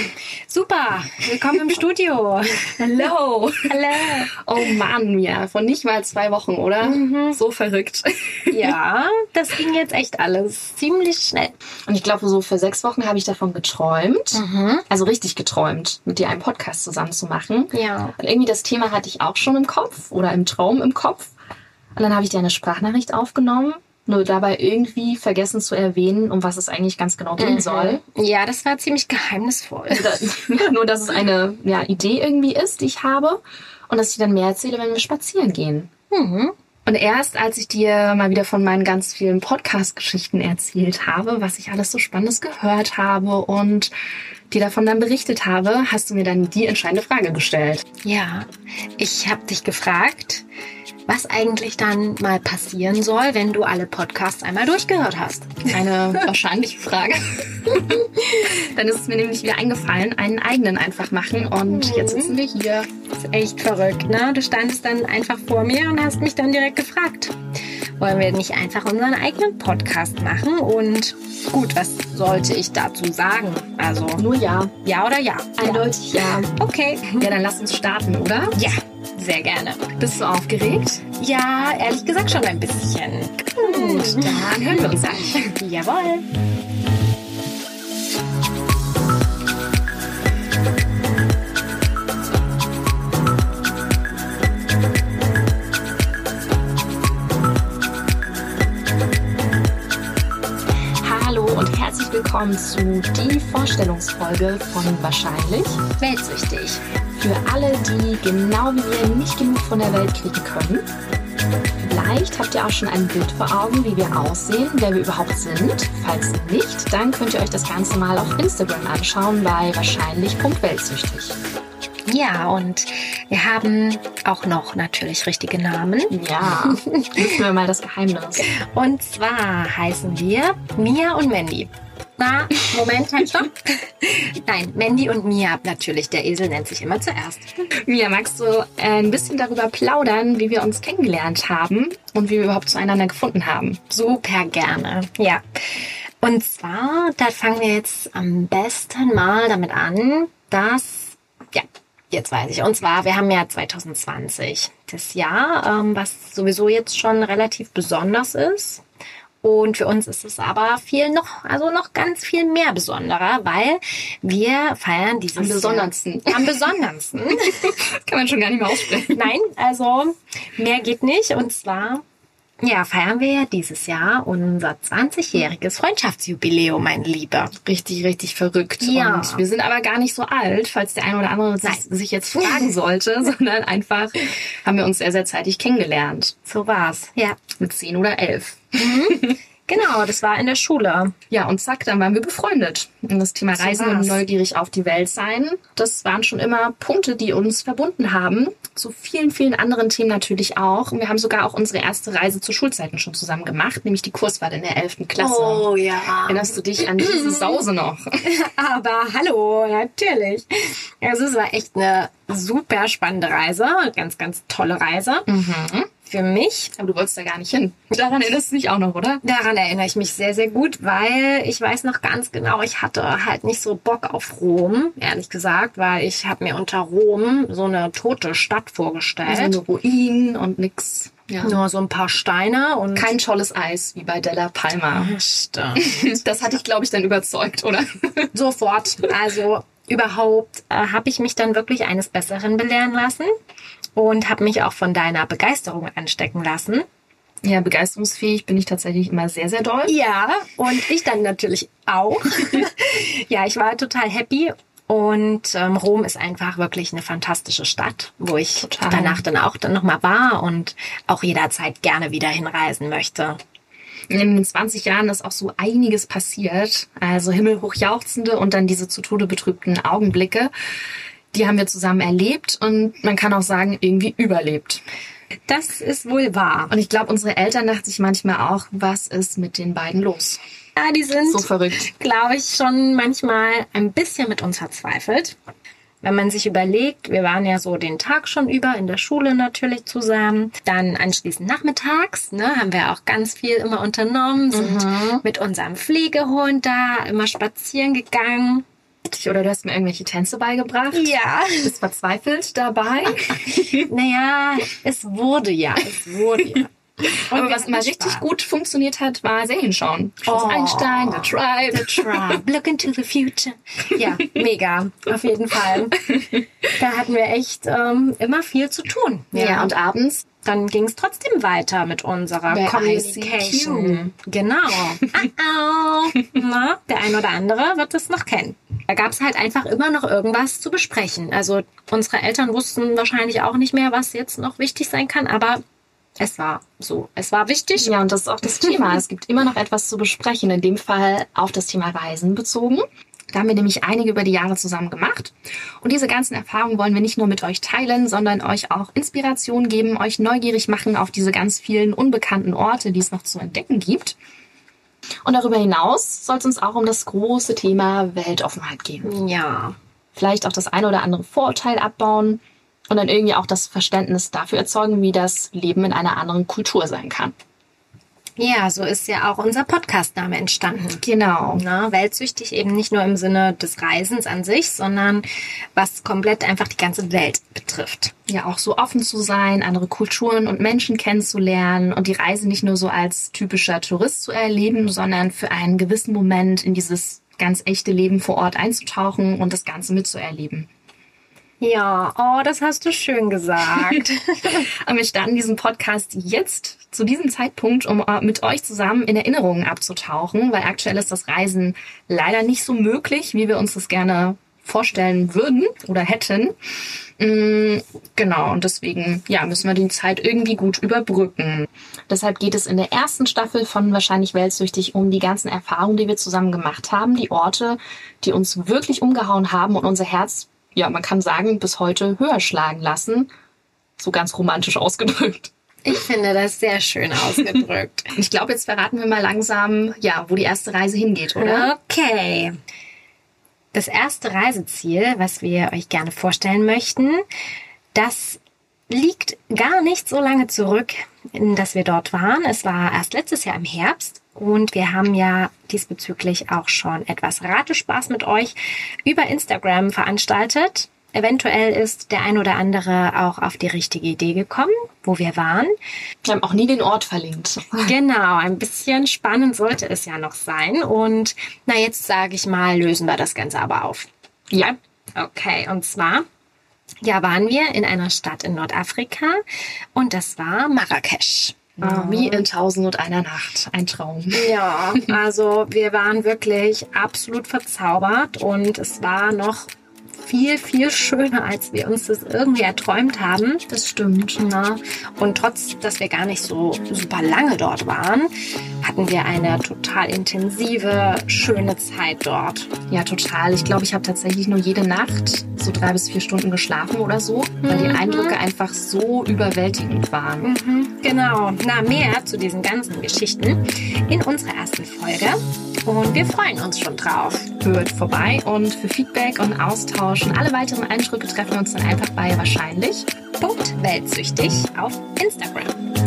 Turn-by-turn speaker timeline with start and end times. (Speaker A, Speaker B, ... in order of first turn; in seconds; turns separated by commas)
Speaker A: 0.5-3.1, Speaker B: 2.8-8.8, Speaker A: 3.7-4.3, Speaker A: 6.8-7.4, Speaker A: 8.5-11.6, Speaker B: 11.9-21.3, Speaker A: 14.3-14.9, Speaker A: 17.7-18.2, Speaker B: 22.0-28.0, Speaker A: 27.4-30.4, Speaker B: 29.9-35.9, Speaker A: 36.1-36.5, Speaker B: 36.9-43.9, Speaker B: 44.5-47.9, Speaker A: 48.0-50.5, Speaker A: 51.1-56.2, Speaker B: 55.7-62.9, Speaker A: 57.8-58.4, Speaker A: 61.6-62.4, Speaker A: 63.1-67.4, Speaker A: 68.0-74.3, Speaker B: 74.2-74.7, Speaker A: 74.8-77.4, Speaker B: 75.6-76.5, Speaker B: 77.2-78.6, Speaker A: 78.5-79.9, Speaker B: 80.0-81.0, Speaker A: 81.2-86.3, Speaker B: 83.6-85.5, Speaker B: 101.0-105.8, Speaker A: 106.0-106.8, Speaker B: 107.2-110.8, Speaker B: 111.8-121.4, Speaker A: 122.1-127.2, Speaker B: 126.1-128.4, Speaker A: 128.4-137.5, Speaker B: 137.9-143.8, Speaker A: 143.9-158.8, Speaker A: 159.4-167.8, Speaker B: 165.4-166.7, Speaker B: 167.3-169.3, Speaker A: 169.1-172.0, Speaker A: 172.6-177.6, Speaker B: 177.6-186.3, Speaker A: 178.8-179.4, Speaker A: 182.3-182.7, Speaker A: 186.5-187.4, Speaker B: 187.6-189.4, Speaker A: 188.8-191.2, Speaker B: 191.3-205.7, Speaker A: 193.5-194.2, Speaker A: 205.2-207.6, Speaker B: 206.3-208.2, Speaker A: 208.2-215.4, Speaker B: 215.3-215.9, Speaker A: 216.1-216.7, Speaker B: 216.8-219.2, Speaker A: 219.2-229.6, Speaker B: 229.3-231.6, Speaker A: 231.4-233.1, Speaker B: 232.9-235.2, Speaker A: 234.9-235.9, Speaker B: 235.8-238.3, Speaker A: 238.3-243.3, Speaker A: 243.9-246.9, Speaker B: 247.4-249.9, Speaker A: 249.9-263.4, Speaker B: 258.6-259.2, Speaker B: 264.1-270.5, Speaker B: 271.3-274.8, Speaker A: 275.5-276.7, Speaker B: 276.7-280.4, Speaker A: 280.8-285.4, Speaker B: 281.3-281.9, Speaker A: 286.0-298.6, Speaker B: 294.5-295.2, Speaker B: 299.1-303.9, Speaker A: 300.9-301.8, Speaker A: 303.8-308.3, Speaker B: 307.3-312.4, Speaker A: 310.3-319.7, Speaker B: 319.3-320.2, Speaker A: 320.4-335.6, Speaker B: 322.5-324.1, Speaker A: 336.2-338.0, Speaker B: 337.8-354.2, Speaker B: 355.2-359.1, Speaker A: 359.0-359.8, Speaker B: 360.2-367.3, Speaker A: 368.4-371.0, Speaker B: 371.0-371.6, Speaker A: 371.6-378.1, Speaker B: 378.3-390.7, Speaker A: 391.6-394.6, Speaker B: 394.6-406.6, Speaker B: 407.2-423.3, Speaker B: 424.0-425.5, Speaker A: 425.9-428.1, Speaker B: 428.1-431.7, Speaker A: 431.4-432.6, Speaker A: 433.7-437.2, Speaker A: 437.9-438.4, Speaker A: 438.9-455.7, Speaker B: 456.2-457.9, Speaker A: 457.8-464.1, Speaker B: 464.5-464.8, Speaker A: 464.6-466.3, Speaker A: 467.0-469.4, Speaker A: 470.0-472.4, Speaker B: 471.8-475.0, Speaker A: 474.3-483.7, Speaker B: 483.7-484.4, Speaker A: 484.4-488.3, Speaker A: 488.8-492.7, Speaker B: 492.9-500.5, Speaker A: 497.6-498.4, Speaker A: 500.4-507.5, Speaker B: 507.6-513.1, Speaker A: 513.4-515.8